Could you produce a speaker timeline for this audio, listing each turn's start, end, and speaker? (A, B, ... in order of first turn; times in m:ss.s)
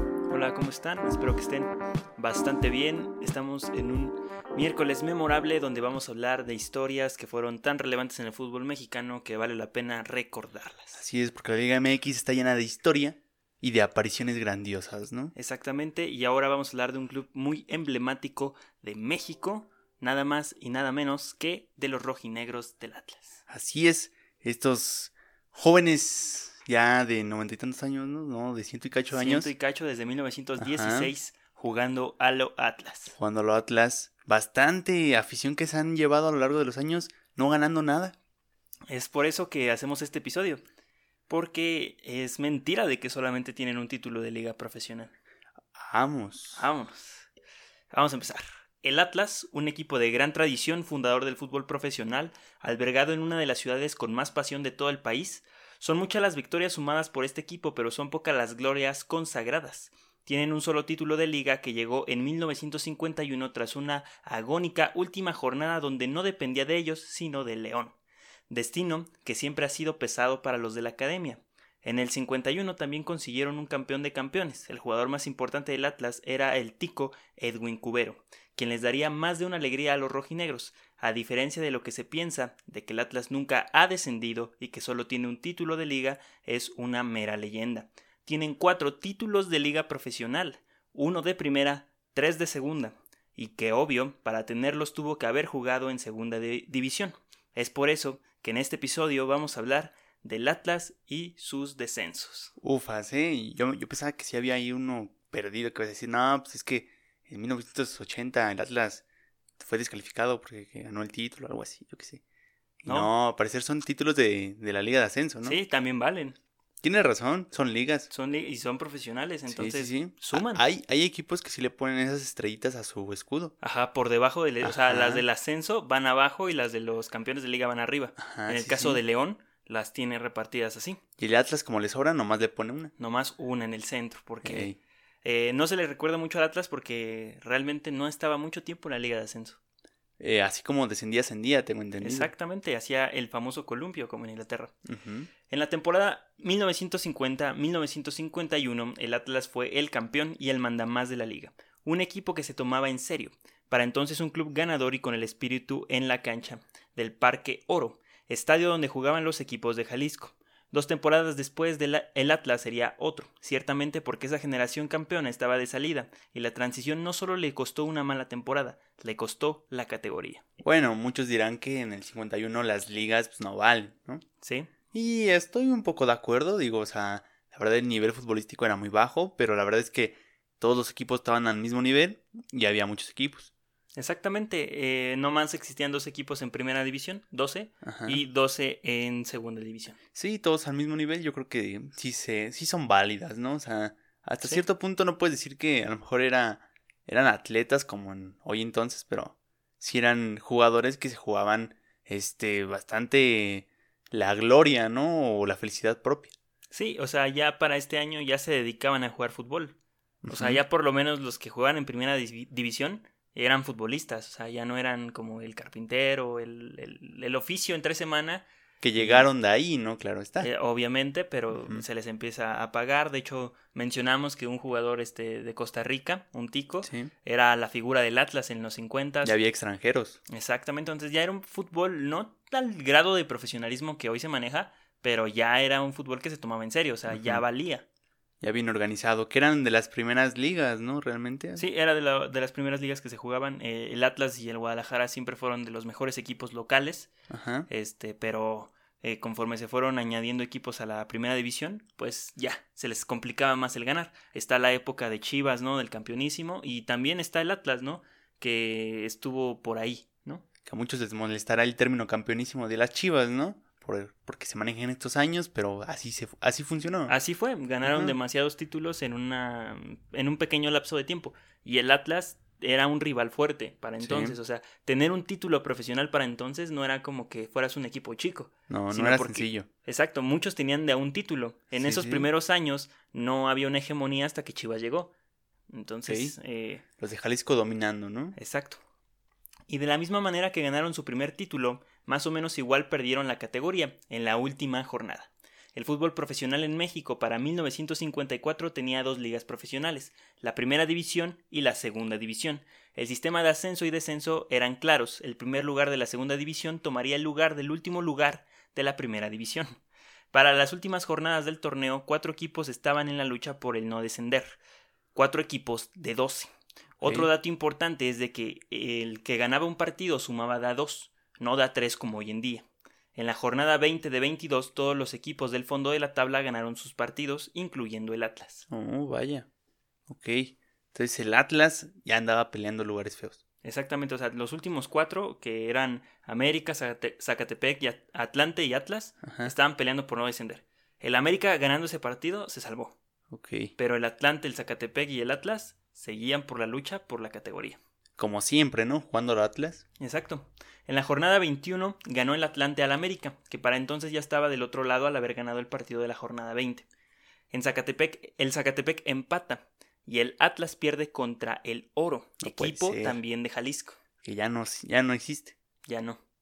0:00.3-0:11.0 A
0:11.0-0:15.3 B
0:15.4-0:23.4 A
0:23.5-0:29.5 B
0:29.1-0:33.2 A
0:30.6-0:31.1 B
0:33.1-0:38.2 B
0:38.9-0:40.6 A
0:41.3-0:45.1 A
0:45.8-0:46.7 B
0:46.6-0:47.3 A
0:47.9-1:08.0 A
1:08.5-1:42.5 A
1:42.6-1:49.0 B
1:49.6-1:52.2 B
1:52.8-1:55.6 B
1:52.9-1:53.1 A
1:55.4-1:56.4 A
1:56.8-1:58.1 B
1:58.1-2:00.6 A
1:59.5-2:03.5 B
2:03.6-2:11.0 A
2:04.6-2:05.2 B
2:08.2-2:09.0 B
2:11.2-2:12.9 B
2:13.0-2:14.7 A
2:14.4-2:14.8 B
2:15.2-2:19.6 A
2:20.2-2:22.3 B
2:22.0-2:24.7 A
2:24.8-2:25.3 B
2:25.5-2:50.4 A
2:50.6-2:54.2 B
2:54.4-2:54.7 A
2:54.9-3:03.5 B
3:04.0-3:10.0 A
3:07.8-3:08.2 B
3:10.2-3:26.3 B
3:26.7-3:29.8 A
3:30.2-3:30.6 B
3:30.3-3:38.4 A
3:38.8-3:40.5 B
3:39.0-3:39.3 A
3:40.4-3:49.4 A
3:41.5-3:41.8 B
3:46.8-3:47.1 B
3:49.2-3:50.2 B
3:50.3-3:57.9 A
3:57.1-3:57.4 B
3:58.4-4:01.6 B
4:01.6-4:07.1 A
4:07.3-4:07.7 B
4:07.7-4:20.4 A
4:20.6-4:27.2 B
4:27.1-4:45.1 A
4:27.8-4:28.2 B
4:34.0-4:34.4 B
4:38.7-4:39.7 B
4:41.7-4:42.3 B
4:45.7-4:46.8 A
4:46.1-4:46.4 B
4:47.0-4:48.4 B
4:48.4-4:48.8 A
4:49.7-5:09.8 A
5:10.3-5:14.6 A
5:15.2-5:28.7 A
5:17.0-5:17.3 B
5:28.7-5:29.5 B
5:30.1-5:33.4 B
5:33.6-5:43.0 A
5:39.2-5:39.5 B
5:43.3-5:43.7 B
5:43.8-5:47.8 A
5:48.2-5:49.8 B
5:50.0-5:56.9 A
5:57.5-6:04.0 A
6:02.4-6:03.2 B
6:04.2-6:05.6 B
6:05.9-6:06.2 A